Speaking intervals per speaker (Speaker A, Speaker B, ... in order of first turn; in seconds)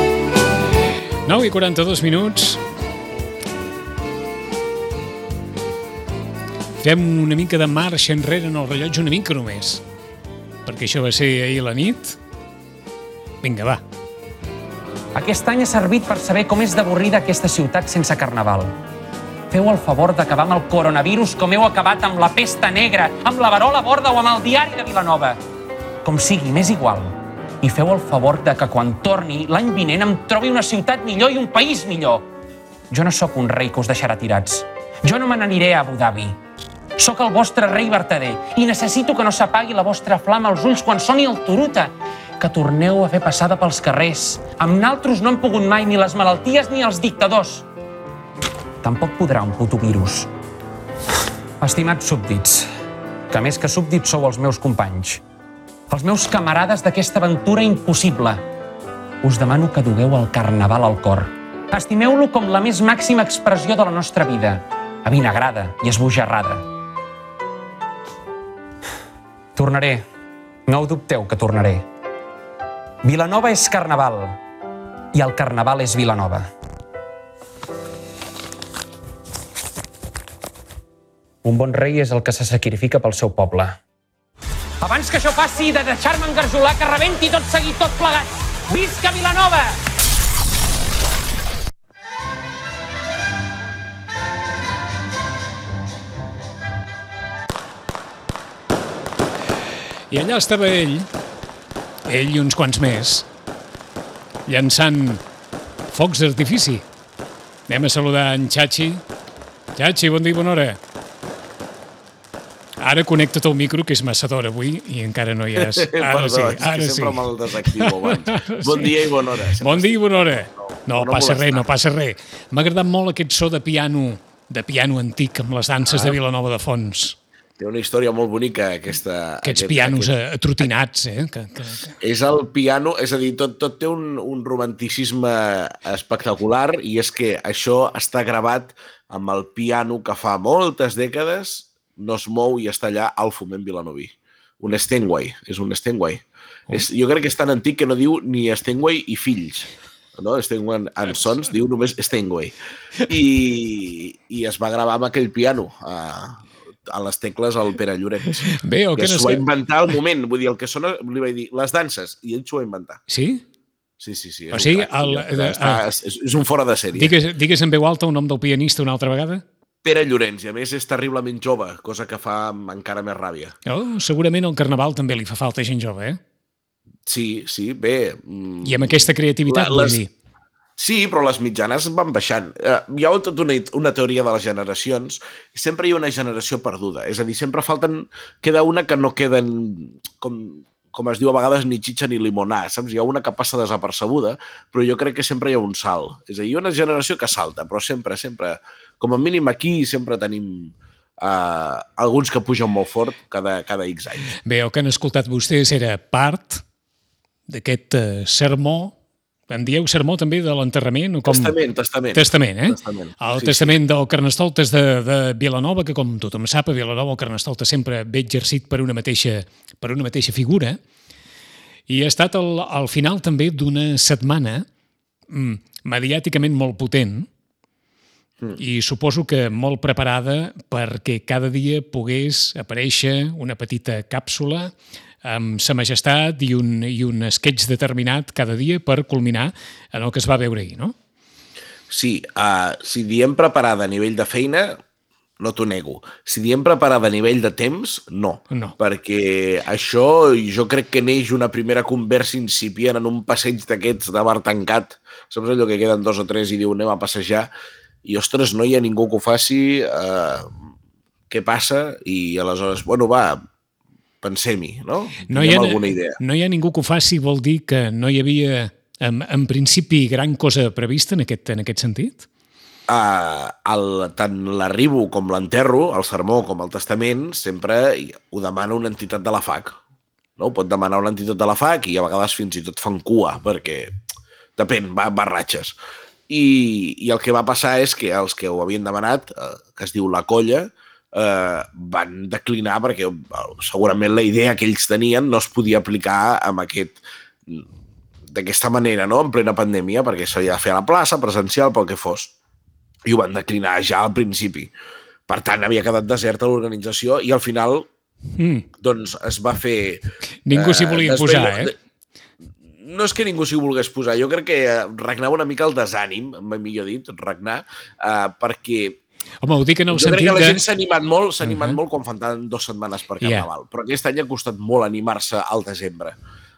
Speaker A: 1.2-2.6, 6.8-9.8, 10.7-12.2, 13.4-13.8, 100.1-101.1, 102.0-103.2, 104.5-105.2, 105.9-106.8, 107.7-109.0, 109.8-110.8, 112.8-119.0, 119.6-127.2, 129.4-131.9, 158.5-159.4, 163.1-163.4, 164.5-165.8, 166.9-169.4, 173.7-176.2, 178.6-180.1, 204.4-206.6, 207.5-208.9, 209.5-211.5, 212.1-220.8, 221.9-224.6, 225.3-227.3, 228.6-240.9, 265.3-272.2, 308.3-308.6, 310.4-311.7, 319.4-320.6, 321.4-321.8, 323.2-323.5
Speaker B: 15.1-18.7, 19.5-25.4, 26.0-32.2, 32.9-36.4, 37.0-47.6, 48.8-50.3, 51.6-52.7, 53.3-55.2, 55.9-58.4, 59.2-66.7, 69.5-70.0, 70.7-71.8, 73.0-74.4, 75.1-76.5, 81.4-83.8, 84.8-89.8
Speaker C: 115.5-121.7, 125.8-126.2, 127.6-130.1, 132.0-152.5, 153.1-163.0, 164.0-167.1, 169.8-173.5, 177.1-180.0, 180.8-204.3, 211.2-213.8, 241.9-244.8, 245.4-257.5, 258.0-260.5, 261.3-263.4, 264.2-266.2, 272.9-279.8, 280.4-283.9, 284.6-285.8, 286.3-297.6, 298.3-302.3, 303.1-304.7, 305.3-307.9, 308.8-311.8, 312.8-319.0, 319.9-326.1